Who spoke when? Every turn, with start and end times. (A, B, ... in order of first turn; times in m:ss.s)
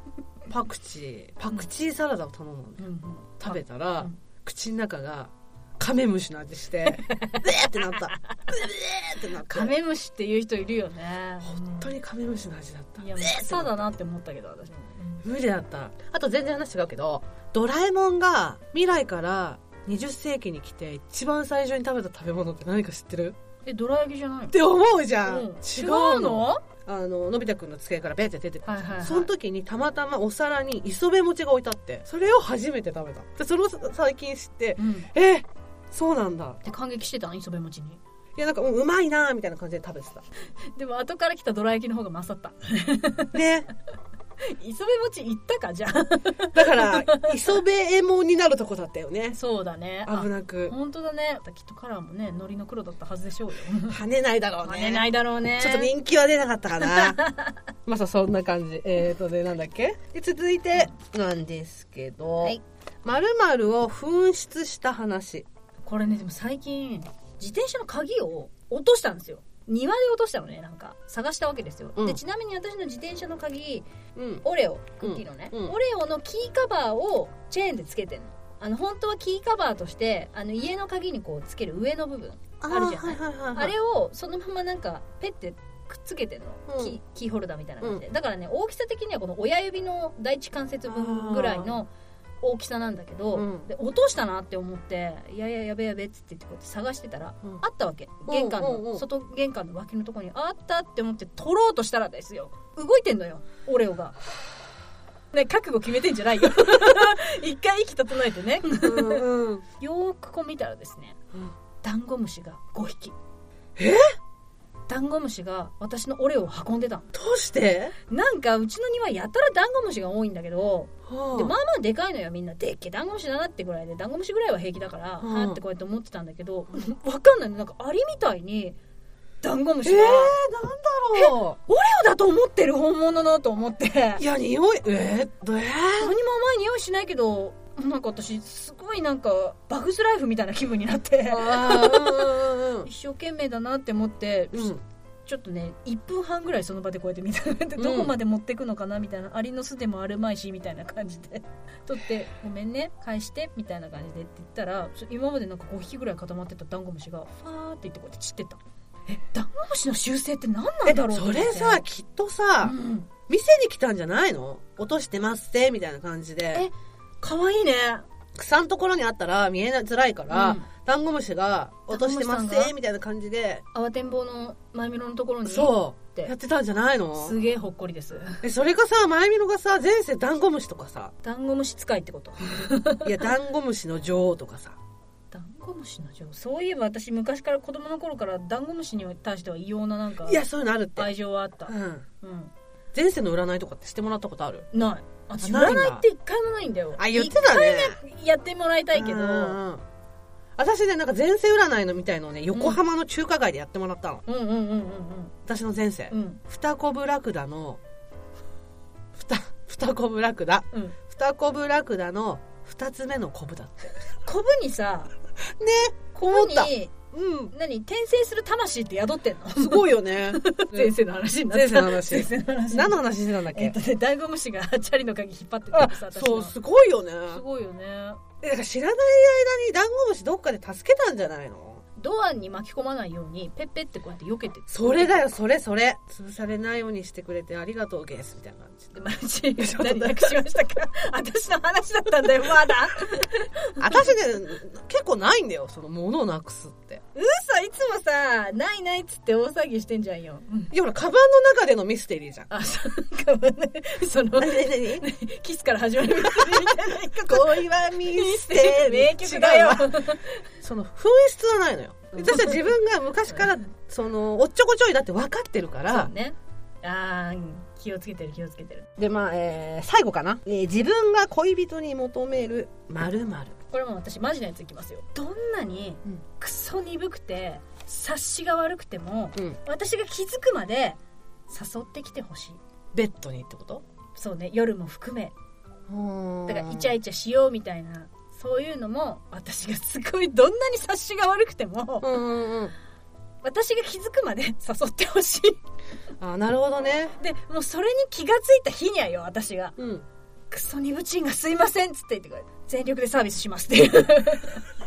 0:00.5-0:02.8 A
0:02.8-0:04.2 B
0:03.4-0:09.7 A
0:07.0-0:08.4 B
0:09.4-0:12.0 B
0:11.4-0:13.9 A
0:13.0-0:15.2 B
0:15.2-0:23.4 A
0:23.6-0:24.6 B
0:24.5-0:36.6 A
0:25.2-0:26.6 B
0:28.6-0:29.3 B
0:34.8-0:35.1 B
0:36.6-0:38.0 B
0:38.4-0:40.2 A
0:40.8-0:43.4 B
0:43.3-0:43.7 A
0:44.4-0:47.4 B
0:46.5-0:49.4 A
0:49.4-0:54.0 B
0:50.1-0:50.8 A
0:53.9-0:57.2 A
0:54.6-0:55.9 B
0:56.8-0:57.6 B
0:57.9-1:05.5 A
1:05.8-1:13.9 B
1:14.2-1:14.4 A
1:14.4-1:31.9 B
1:15.0-1:15.8 A
1:22.6-1:23.8 A
1:26.7-1:27.0 A
1:30.9-1:31.8 A
1:32.4-1:44.2 B
1:33.3-1:33.7 A
1:38.3-1:39.0 A
1:45.3-1:49.2 B
1:48.8-1:49.6 A
1:49.8-1:51.2 B
1:51.8-1:53.2 B
1:53.8-1:54.1 A
1:54.9-1:57.1 B
1:57.1-1:58.0 A
1:58.1-2:08.8 B
2:01.1-2:01.5 A
2:05.2-2:05.6 A
2:09.4-2:10.4 B
2:09.8-2:11.6 A
2:11.1-2:14.2 B
2:14.2-2:16.1 A
2:16.0-2:41.8 B
2:21.3-2:22.9 A
2:24.5-2:24.8 A
2:27.8-2:28.2 A
2:40.8-2:42.8 A
2:42.6-2:43.1 B
2:43.3-2:46.7 A
2:46.5-2:48.0 B
2:48.4-2:53.6 A
2:50.3-2:50.7 B
2:51.9-2:52.7 B
2:53.7-2:56.3 B
2:55.4-2:57.4 A
2:57.2-2:58.4 B
2:58.4-3:01.1 A
3:01.2-3:03.1 B
3:03.0-3:04.8 A
3:05.3-3:10.4 B
3:10.2-3:11.1 A
3:11.0-3:12.5 B
3:11.7-3:12.0 A
3:12.9-3:14.7 A
3:14.7-3:19.6 B
3:15.4-3:16.0 A
3:17.0-3:18.0 A
3:18.9-3:19.8 A
3:20.6-3:24.2 A
3:22.5-3:22.8 B
3:24.3-3:25.3 B
3:25.5-3:27.8 A
3:26.1-3:26.4 B
3:29.1-3:34.0 A
3:34.2-3:35.1 B
3:35.4-3:37.5 A
3:36.2-3:36.9 B
3:37.5-3:46.5 B
3:39.6-3:40.9 A
3:41.5-3:43.8 A
3:45.7-3:47.4 A
3:47.3-3:48.2 B
3:48.4-3:51.8 A
3:52.0-3:55.2 B
3:54.7-3:58.9 A
3:58.9-4:04.1 B
3:59.6-4:00.4 A
4:03.8-4:07.0 A
4:07.2-4:10.7 B
4:10.7-4:12.5 A
4:12.5-4:20.3 B
4:14.4-4:15.0 A
4:16.1-4:20.1 A
4:20.6-4:26.1 A
4:22.1-4:22.8 B
4:25.9-4:28.9 B
4:29.0-4:33.6 A
4:33.7-4:42.6 B
4:42.9-4:43.8 A
4:44.2-4:45.3 B
4:45.9-4:47.0 A
4:46.5-4:52.2 B
4:52.0-4:52.7 A
4:53.4-4:55.6 B
4:56.2-4:57.2 A
4:57.2-4:59.8 B
4:59.8-5:00.0 A
5:00.5-5:04.6 B